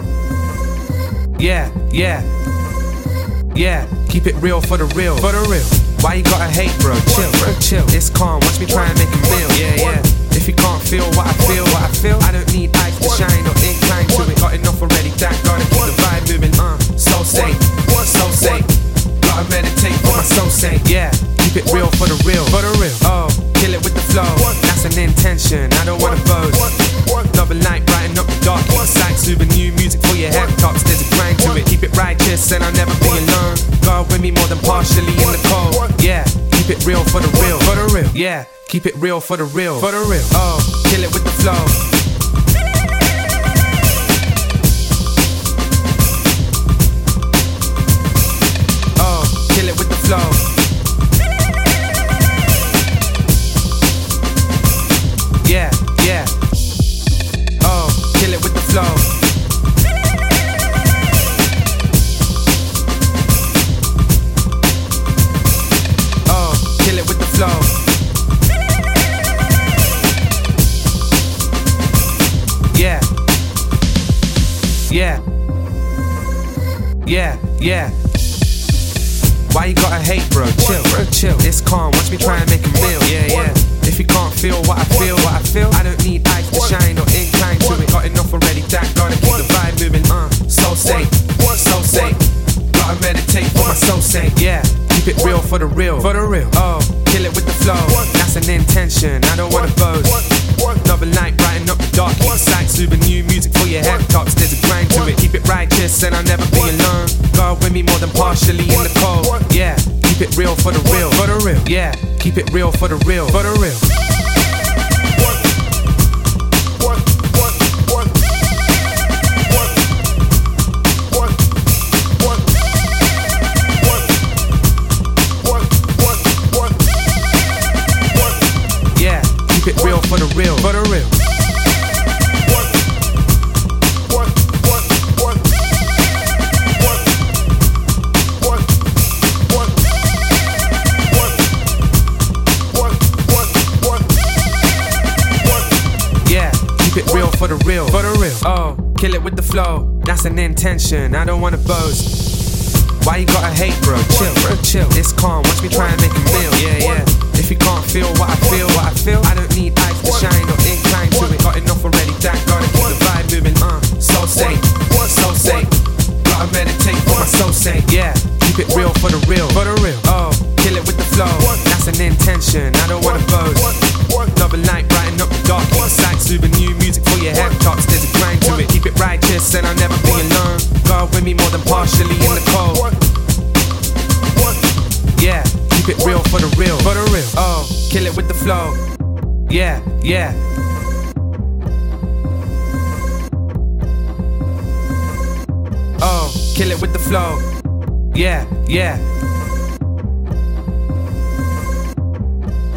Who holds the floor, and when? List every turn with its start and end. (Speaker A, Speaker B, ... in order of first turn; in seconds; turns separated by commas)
Speaker A: 1.4-2.3, Speaker A: 3.5-41.9, Speaker A: 49.0-50.5, Speaker A: 55.4-56.4, Speaker A: 57.6-59.2, Speaker A: 66.2-67.8, Speaker A: 72.7-73.1, Speaker A: 74.9-75.2, Speaker A: 77.0-78.0, Speaker A: 79.5-113.9, Speaker A: 128.9-131.2, Speaker A: 146.2-152.1, Speaker A: 153.0-182.9, Speaker A: 185.1-188.8, Speaker A: 189.5-190.4, Speaker A: 196.0-197.5, Speaker A: 198.1-199.1